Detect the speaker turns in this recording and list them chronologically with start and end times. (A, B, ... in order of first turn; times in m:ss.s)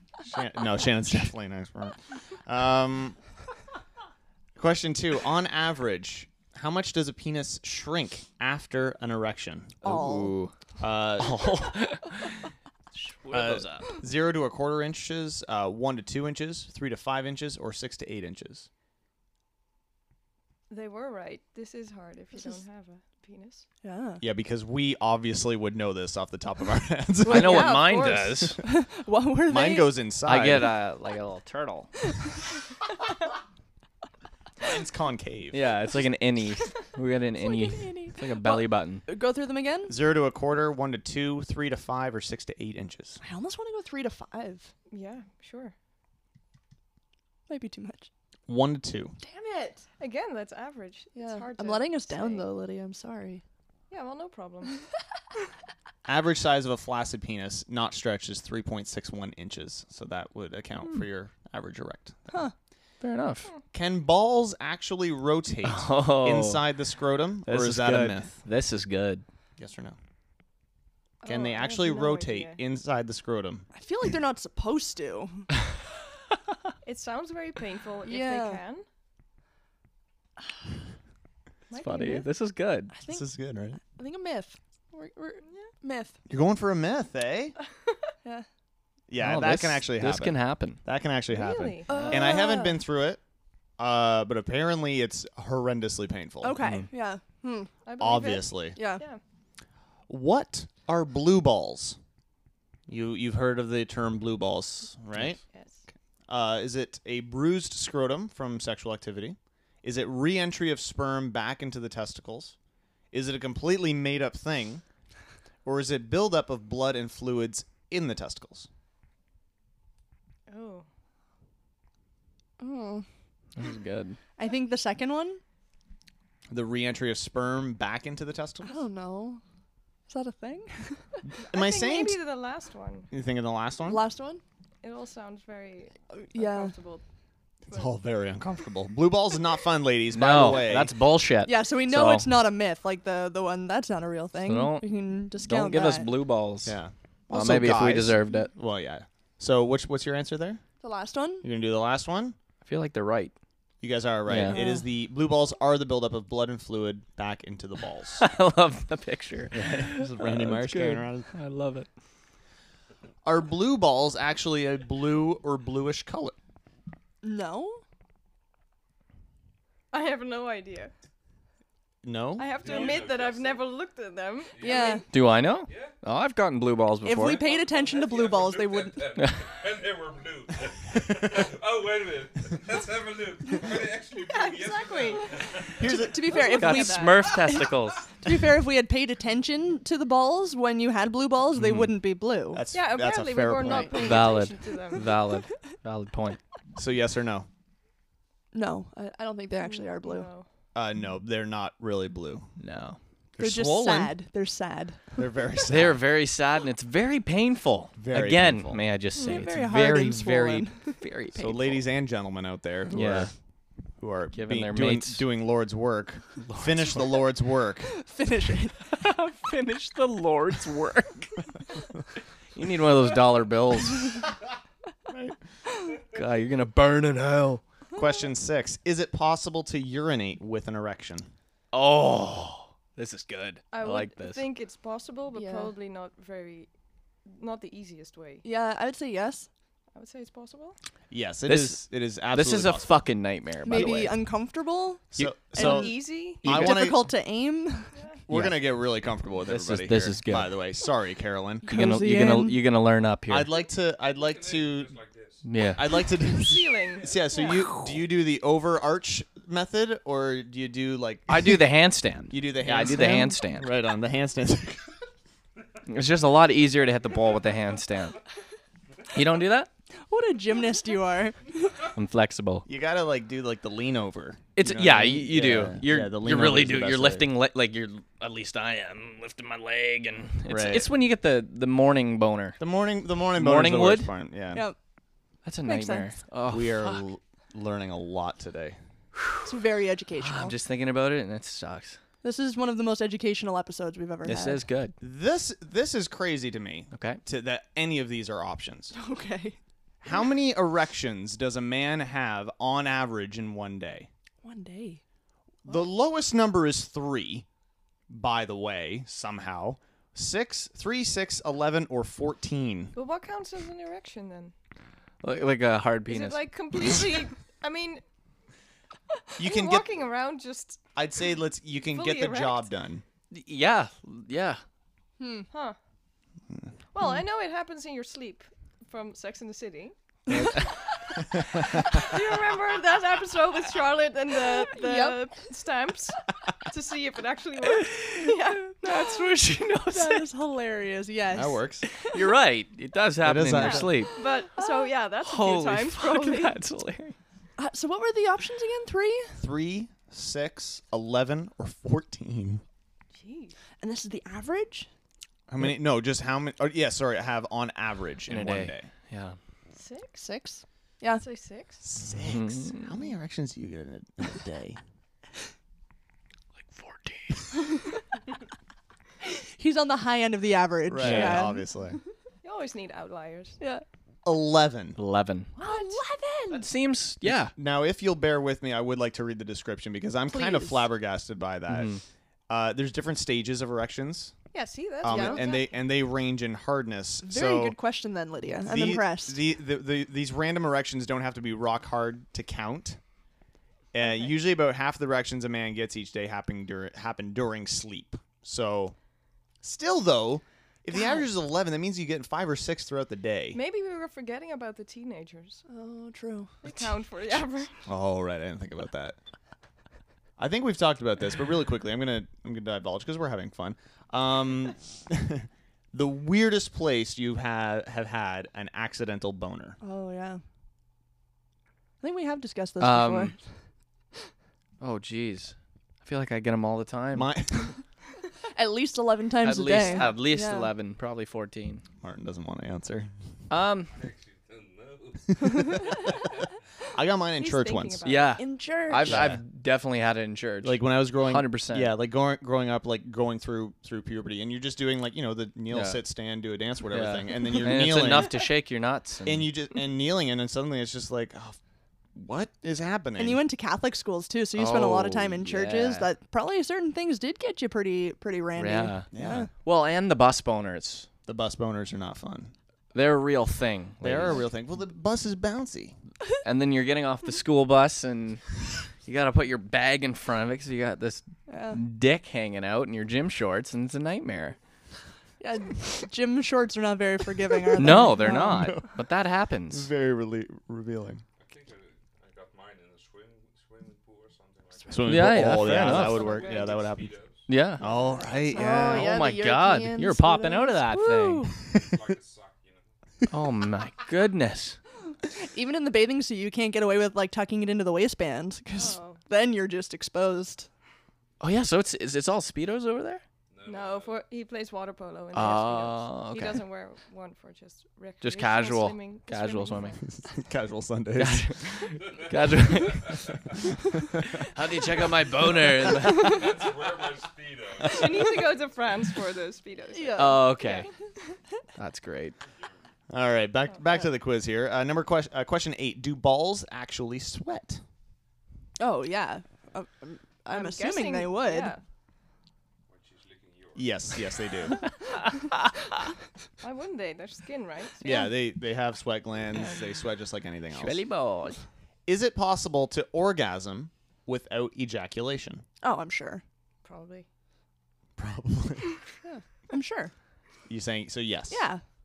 0:00.3-0:03.2 A
0:04.6-0:09.8 A
0:09.8-0:10.4 B
0:09.8-0:10.5 C
0:10.8-0:11.4 A
0:11.2-0:13.9 C
0:13.3-0:18.7 A
0:20.7-0:23.7 D
0:23.8-0:24.2 B
0:24.2-0:28.0 A
0:27.3-0:29.9 B
0:27.3-0:28.6 C
0:27.4-0:28.5 D
0:29.5-0:30.7 A
0:30.2-0:31.9 C
0:34.6-0:35.7 A
0:35.5-0:39.0 C
0:37.4-0:40.0 B
0:39.9-0:43.2 A
0:43.2-0:44.7 B
0:44.9-0:45.7 D
0:47.5-0:48.1 B
0:48.5-0:49.2 A
0:49.2-0:49.8 B
0:50.0-0:52.5 D
0:51.2-0:53.4 B
0:53.9-0:54.8 D
0:56.1-1:02.4 A
1:03.0-1:03.5 C
1:03.7-1:08.3 A
1:05.6-1:06.6 C
1:07.5-1:09.2 C
1:09.6-1:10.0 A
1:11.2-1:12.6 D
1:11.2-1:13.7 A
1:13.7-1:15.5 B
1:16.8-1:18.8 D
1:18.0-1:18.6 B
1:21.7-1:22.2 D
1:21.8-1:22.9 C
1:22.9-1:26.2 B
1:23.1-1:23.8 A
1:25.5-1:25.7 D
1:26.3-1:27.6 A
1:29.1-1:33.2 A
1:29.2-1:30.8 C
1:31.3-1:32.7 D
1:31.9-1:32.7 B
1:33.8-1:36.6 A
1:36.4-1:37.7 B
1:36.6-1:36.9 C
1:37.9-1:39.2 D
1:38.0-1:38.8 A
1:38.8-1:39.0 B
1:40.1-1:42.0 A
1:42.9-1:45.4 A
1:45.5-1:45.8 D
1:46.3-1:52.6 A
1:53.1-1:54.8 A
1:55.6-1:58.7 A
2:00.5-2:00.9 D
2:02.6-2:03.1 B
2:03.6-2:04.2 C
2:04.4-2:05.4 B
2:06.5-2:08.8 A
2:08.6-2:09.4 B
2:10.1-2:11.0 B
2:11.3-2:12.2 A
2:11.5-2:13.1 D
2:13.1-2:14.0 A
2:13.9-2:14.4 B
2:14.8-2:17.0 D
2:16.1-2:16.7 B
2:17.7-2:20.9 A
2:20.1-2:22.4 C
2:21.4-2:26.1 B
2:24.5-2:26.8 C
2:26.6-2:30.6 A
2:27.3-2:28.5 C
2:30.8-2:31.5 B
2:31.4-2:32.4 A
2:32.6-2:33.3 C
2:33.8-2:38.3 A
2:34.3-2:34.6 C
2:34.5-2:34.8 B
2:38.2-2:41.9 C
2:39.5-2:41.3 A
2:43.2-2:46.4 A
2:47.2-2:47.8 B
2:49.9-2:50.9 D
2:52.0-2:52.7 A
2:52.4-2:55.1 D
2:52.5-2:53.7 E
2:54.5-2:56.0 E
2:54.6-2:55.0 B
2:55.1-2:57.4 C
2:57.0-2:59.0 B
2:57.2-3:05.8 E
2:59.2-2:59.4 C
3:01.0-3:01.5 A
3:04.2-3:07.4 D
3:05.8-3:06.4 A
3:05.9-3:12.6 B
3:06.3-3:08.1 C
3:11.6-3:11.9 C
3:12.5-3:14.1 A
3:12.7-3:15.2 D
3:13.6-3:14.0 B
3:14.0-3:16.4 C
3:16.8-3:17.5 A
3:18.5-3:20.3 B
3:19.6-3:20.5 D
3:20.8-3:22.5 A
3:22.6-3:23.0 C
3:23.4-3:24.2 A
3:23.4-3:25.0 B
3:25.2-3:26.0 A
3:25.7-3:31.8 C
3:28.0-3:28.8 A
3:29.2-3:29.5 D
3:29.2-3:31.0 B
3:31.4-3:33.3 A
3:32.9-3:33.3 C
3:34.0-3:37.9 A
3:34.3-3:35.3 C
3:36.4-3:37.1 C
3:37.9-3:39.0 B
3:38.9-3:41.5 C
3:42.5-3:44.3 C
3:45.1-3:45.4 A
3:46.1-3:47.6 C
3:48.0-3:51.3 A
3:51.7-3:54.5 C
3:53.7-3:56.7 D
3:55.3-3:55.7 B
3:57.3-3:58.4 D
3:58.4-3:59.5 B
3:59.9-4:00.8 D
4:01.1-4:02.9 A
4:01.5-4:04.2 C
4:03.6-4:07.9 B
4:03.7-4:04.0 A
4:05.2-4:07.0 A
4:05.6-4:06.7 D
4:07.9-4:08.2 D
4:08.3-4:11.7 A
4:08.3-4:08.6 C
4:09.4-4:10.6 C
4:11.7-4:13.5 C
4:11.7-4:12.6 B
4:13.3-4:15.0 A
4:13.6-4:15.7 E
4:15.4-4:15.9 C
4:15.8-4:21.7 A
4:16.1-4:17.7 D
4:21.3-4:23.7 C
4:22.3-4:24.8 A
4:25.9-4:28.2 C
4:29.1-4:29.7 C
4:30.1-4:31.8 B
4:32.0-4:32.7 C
4:32.7-4:37.3 A
4:34.6-4:42.6 C
4:40.5-4:40.9 A
4:42.6-4:44.7 A
4:43.3-4:44.1 C
4:45.4-4:47.0 C
4:45.6-4:46.2 B
4:46.5-4:48.8 A
4:49.2-4:49.5 C
4:49.4-4:50.6 B
4:50.2-4:52.0 C
4:52.2-4:54.6 B
4:54.2-4:55.0 C
4:55.0-4:58.9 A
4:56.9-4:57.2 C
4:58.9-4:59.6 B
5:00.0-5:04.1 A
5:04.4-5:05.0 B
5:05.7-5:07.4 A
5:08.1-5:12.9 A
5:12.9-5:14.5 D
5:15.2-5:16.4 C
5:16.1-5:18.0 D
5:19.4-5:20.8 D
5:19.4-5:19.9 A
5:21.0-5:23.0 A
5:21.9-5:22.7 D
5:23.3-5:24.6 C
5:25.2-5:25.5 B
5:25.5-5:25.8 D
5:26.9-5:30.0 D
5:30.3-5:30.7 C
5:31.6-5:38.8 D
5:34.7-5:35.3 B
5:37.7-5:40.3 C
5:38.8-5:39.1 B
5:39.9-5:42.1 B
5:41.3-5:41.8 A
5:42.0-5:44.1 C
5:43.2-5:44.0 A
5:43.5-5:46.6 D
5:44.2-5:44.9 B
5:45.2-5:47.2 C
5:47.6-5:49.3 B
5:49.4-5:52.6 A
5:53.2-5:53.6 D
5:53.8-5:54.9 B
5:55.5-5:58.9 A
5:58.3-5:59.4 C
5:59.8-6:00.2 D
6:00.2-6:01.3 B
6:01.2-6:01.8 D
6:01.8-6:04.8 A
6:02.2-6:02.9 C
6:06.6-6:07.5 C
6:09.2-6:11.6 B
6:10.9-6:12.0 A
6:11.0-6:11.4 C
6:12.4-6:13.6 D
6:14.2-6:15.0 A
6:15.0-6:15.5 C
6:15.6-6:16.0 D
6:15.6-6:16.7 B
6:16.5-6:17.5 C
6:17.2-6:24.4 A
6:20.3-6:20.9 B
6:21.7-6:22.0 C
6:24.5-6:25.8 D
6:25.0-6:27.8 A
6:25.1-6:25.5 B
6:27.2-6:29.4 B
6:28.7-6:33.0 A
6:33.9-6:39.0 A
6:39.6-6:43.6 A
6:40.9-6:41.2 B
6:43.5-6:45.6 D
6:45.7-6:46.5 B
6:46.6-6:47.7 D
6:47.9-6:49.2 A
6:50.4-6:59.8 A
6:59.8-7:00.4 B
7:02.0-7:03.4 B
7:02.8-7:03.3 C
7:04.8-7:07.3 C
7:07.1-7:07.8 A
7:08.6-7:10.7 B
7:09.4-7:11.8 C
7:09.8-7:10.1 D
7:12.0-7:13.1 A
7:13.5-7:14.0 C
7:13.8-7:16.5 E
7:15.4-7:15.8 A
7:16.9-7:18.0 A
7:17.4-7:18.4 D
7:18.0-7:21.9 C
7:18.4-7:19.2 B
7:19.0-7:19.4 A
7:20.6-7:28.4 A
7:25.7-7:26.0 C
7:26.9-7:29.5 C
7:29.2-7:31.6 A
7:32.2-7:33.4 A
7:33.2-7:39.5 B
7:34.6-7:36.1 C
7:38.6-7:41.1 C
7:39.1-7:39.5 A
7:41.3-7:42.5 A
7:42.9-7:44.4 C
7:44.0-7:46.0 A
7:46.4-7:54.6 C
7:51.5-7:51.8 B
7:55.4-7:58.8 B
7:57.8-7:59.9 C
7:58.3-7:58.9 A
7:59.7-8:01.2 A
8:01.4-8:07.7 E
8:04.9-8:07.2 A
8:05.1-8:06.3 C
8:05.8-8:06.9 D
8:07.5-8:07.8 C
8:07.8-8:09.1 A
8:08.4-8:11.5 B
8:08.6-8:11.5 C
8:11.8-8:12.9 E
8:13.3-8:14.8 C
8:15.3-8:20.7 B
8:18.8-8:19.2 D
8:21.4-8:23.2 C
8:23.5-8:24.2 E
8:23.7-8:30.0 D
8:25.3-8:26.6 C
8:28.2-8:30.0 C
8:30.0-8:31.5 A
8:31.2-8:33.4 C
8:32.0-8:33.4 E
8:34.4-8:36.5 C
8:35.5-8:38.4 E
8:37.8-8:40.9 D
8:39.9-8:40.7 B
8:40.2-8:40.9 C
8:41.8-8:42.4 C
8:43.1-8:47.8 A
8:48.8-8:51.8 B
8:50.5-8:51.8 D
8:52.9-8:54.5 E
8:53.8-8:54.8 A
8:56.6-8:58.3 D
8:58.0-9:01.0 A
8:58.0-8:58.3 B
9:00.7-9:01.6 C
9:02.1-9:05.6 A
9:05.8-9:06.4 B
9:06.8-9:07.2 D
9:08.2-9:09.0 A
9:09.2-9:10.1 B
9:10.7-9:11.6 A
9:11.5-9:11.8 B